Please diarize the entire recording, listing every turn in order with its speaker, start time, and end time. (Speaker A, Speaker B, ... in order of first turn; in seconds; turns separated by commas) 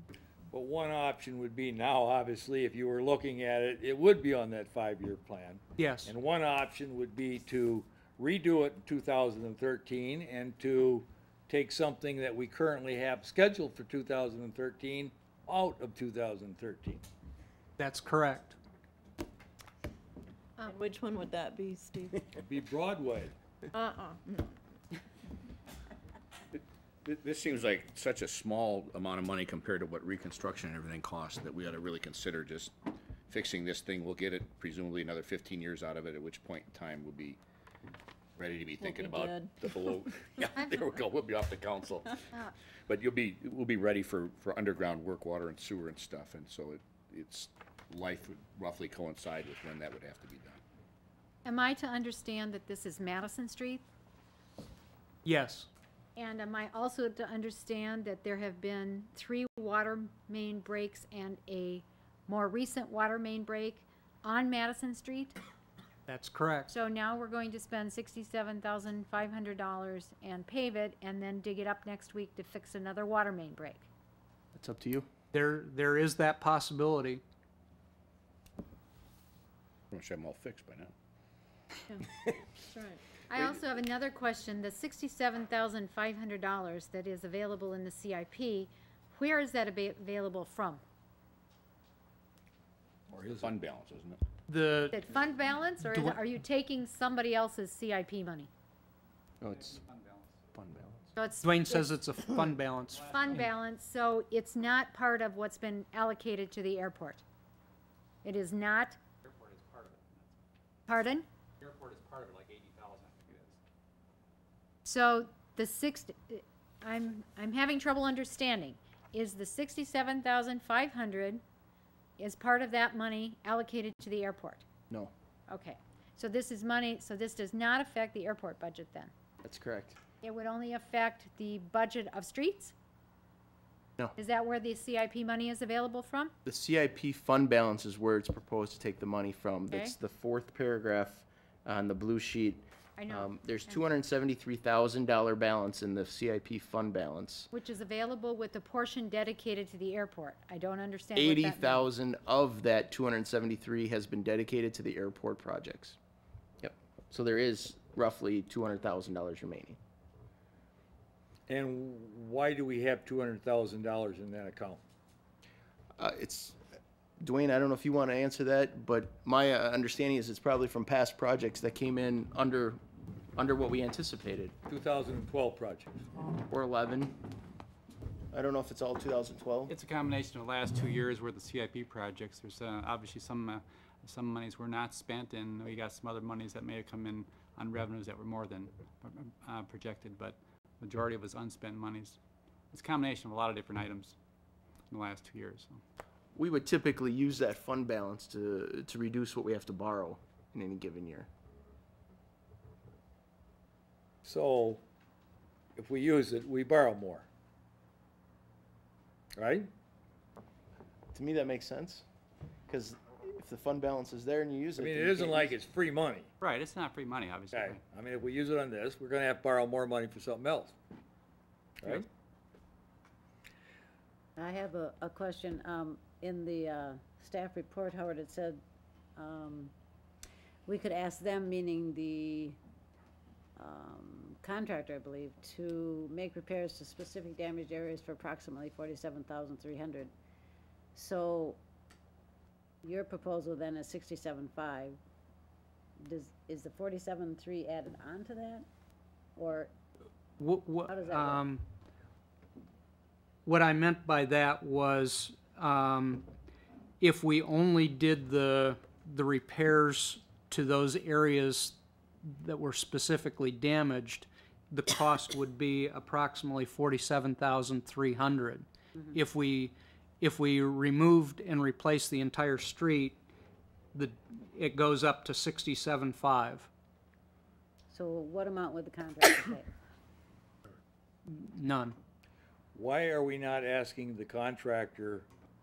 Speaker A: 0.5-17.0, Speaker B: 5.8-6.1, Speaker B: 17.8-18.6, Speaker C: 20.9-22.2, Speaker A: 22.3-23.3, Speaker C: 23.7-24.5, Speaker D: 26.6-32.7, Speaker D: 33.3-37.4, Speaker D: 38.4-42.3, Speaker D: 42.9-50.6, Speaker E: 51.4-53.8, Speaker B: 55.2-55.7, Speaker E: 56.1-65.4, Speaker B: 66.1-66.7, Speaker E: 66.7-73.8, Speaker F: 74.5-75.1, Speaker B: 75.3-77.2, Speaker D: 79.9-80.9, Speaker C: 82.7-83.0, Speaker E: 83.3-90.8, Speaker A: 93.1-93.5, Speaker D: 93.2-94.2, Speaker B: 94.5-95.0, Speaker E: 94.9-98.5, Speaker B: 95.9-96.2, Speaker F: 99.4-99.8, Speaker G: 99.9-100.2, Speaker F: 100.5-101.1, Speaker E: 101.2-101.9, Speaker B: 101.4-103.1, Speaker E: 103.1-107.2, Speaker E: 108.2-109.0, Speaker G: 109.2-110.2, Speaker E: 110.9-111.2, Speaker G: 111.6-113.5, Speaker E: 114.8-121.4, Speaker E: 122.2-124.6, Speaker E: 125.5-129.1, Speaker F: 129.4-130.0, Speaker E: 130.2-132.7, Speaker E: 134.2-136.3, Speaker F: 136.4-147.5, Speaker E: 143.0-143.8, Speaker E: 147.5-151.9, Speaker F: 151.1-156.0, Speaker F: 156.6-159.8, Speaker A: 161.5-164.8, Speaker F: 166.0-166.6, Speaker F: 167.2-172.8, Speaker F: 173.3-174.6, Speaker A: 174.7-175.9, Speaker F: 176.4-177.2, Speaker F: 178.3-179.7, Speaker G: 179.7-192.2, Speaker G: 192.7-194.1, Speaker G: 194.9-195.8, Speaker F: 196.3-201.3, Speaker A: 204.2-204.8, Speaker A: 205.8-207.2, Speaker A: 209.4-209.7, Speaker F: 211.1-212.0, Speaker F: 212.7-215.5, Speaker A: 214.8-216.3, Speaker G: 216.4-217.8, Speaker A: 217.5-220.7, Speaker H: 224.4-228.6, Speaker H: 229.2-229.7, Speaker H: 230.7-232.6, Speaker H: 233.6-240.1, Speaker H: 240.9-241.6, Speaker H: 242.8-245.0, Speaker H: 246.0-248.7, Speaker H: 249.3-249.7, Speaker B: 250.4-251.6, Speaker H: 250.9-251.4, Speaker B: 253.4-256.3, Speaker B: 257.0-273.2, Speaker B: 273.9-276.7, Speaker H: 277.9-279.7, Speaker B: 281.3-282.0, Speaker A: 282.7-285.3